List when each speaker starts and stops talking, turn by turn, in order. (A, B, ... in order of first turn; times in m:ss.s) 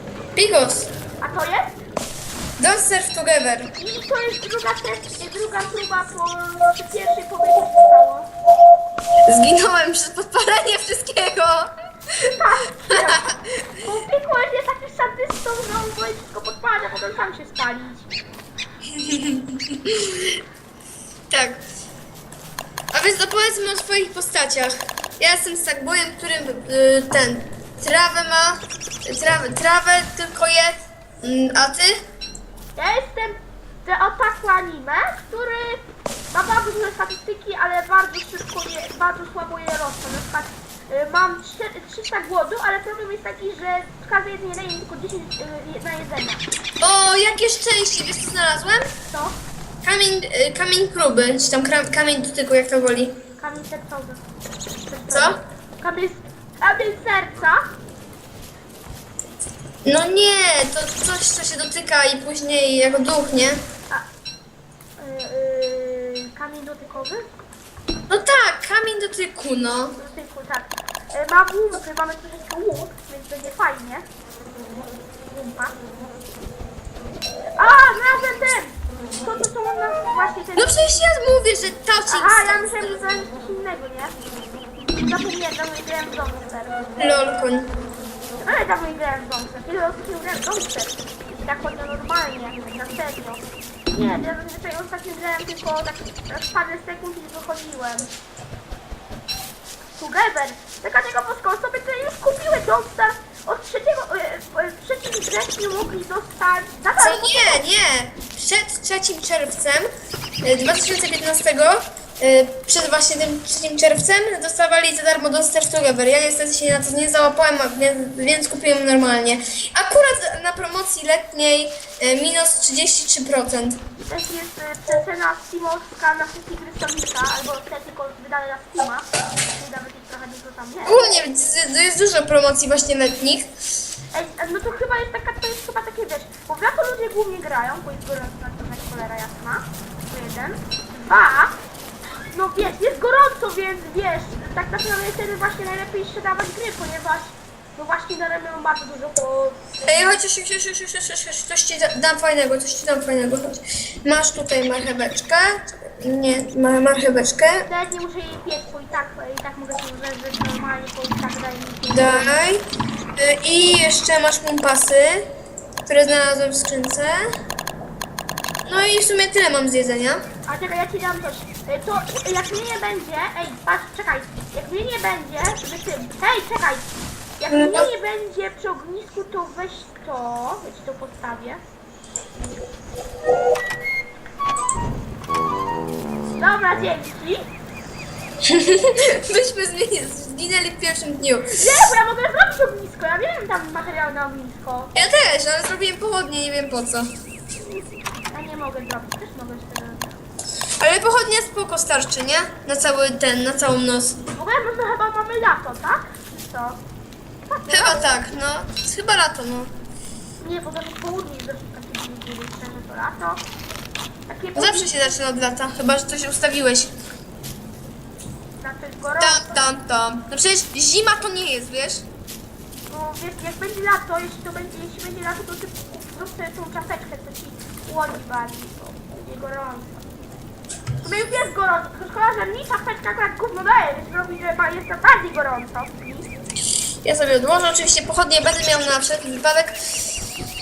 0:00.4-0:00.9 A
0:01.2-0:01.8 B
0:02.6-0:03.7 A
0:03.7-0:08.3 B
0:09.3-0:12.3 A
0:12.2-0:18.1 B
0:12.9-0:13.2 A
0:18.9-0:20.4 A
0:21.3-0:21.6 A
0:22.9-0:32.0 A
0:32.8-0:46.4 B
0:46.8-0:48.9 A
0:49.1-0:49.4 B
0:49.8-0:53.2 A
0:53.4-0:54.2 B
0:54.8-0:57.7 B
0:55.1-0:55.4 A
0:59.8-1:03.6 A
1:05.0-1:07.3 B
1:08.1-1:10.0 A
1:10.0-1:14.0 B
1:15.3-1:15.8 B
1:17.6-1:20.8 B
1:20.6-1:23.0 A
1:22.1-1:24.2 B
1:24.8-1:26.9 B
1:27.0-1:27.7 A
1:28.4-1:38.1 B
1:40.0-1:47.6 B
1:47.0-1:49.9 A
1:50.4-2:03.8 A
2:04.0-2:11.1 B
2:10.8-2:13.5 A
2:14.1-2:21.6 B
2:22.3-2:29.6 B
2:29.8-2:37.7 A
2:37.6-2:42.5 B
2:41.9-2:42.6 A
2:43.2-2:45.2 A
2:45.9-2:47.2 A
2:48.6-2:50.2 A
2:50.4-3:01.6 B
2:57.5-2:57.9 A
3:06.4-3:07.5 B
3:08.4-3:11.8 A
3:11.5-3:14.9 B
3:14.9-3:17.1 A
3:17.6-3:20.2 B
3:20.8-3:24.2 A
3:24.3-3:26.8 B
3:27.4-3:28.2 B
3:27.7-3:29.7 A
3:30.4-3:33.4 B
3:34.3-3:35.2 B
3:34.6-3:36.9 A
3:38.6-3:39.6 B
3:39.2-3:42.0 A
3:42.8-3:50.1 B
3:51.0-3:56.3 B
3:57.0-4:00.2 A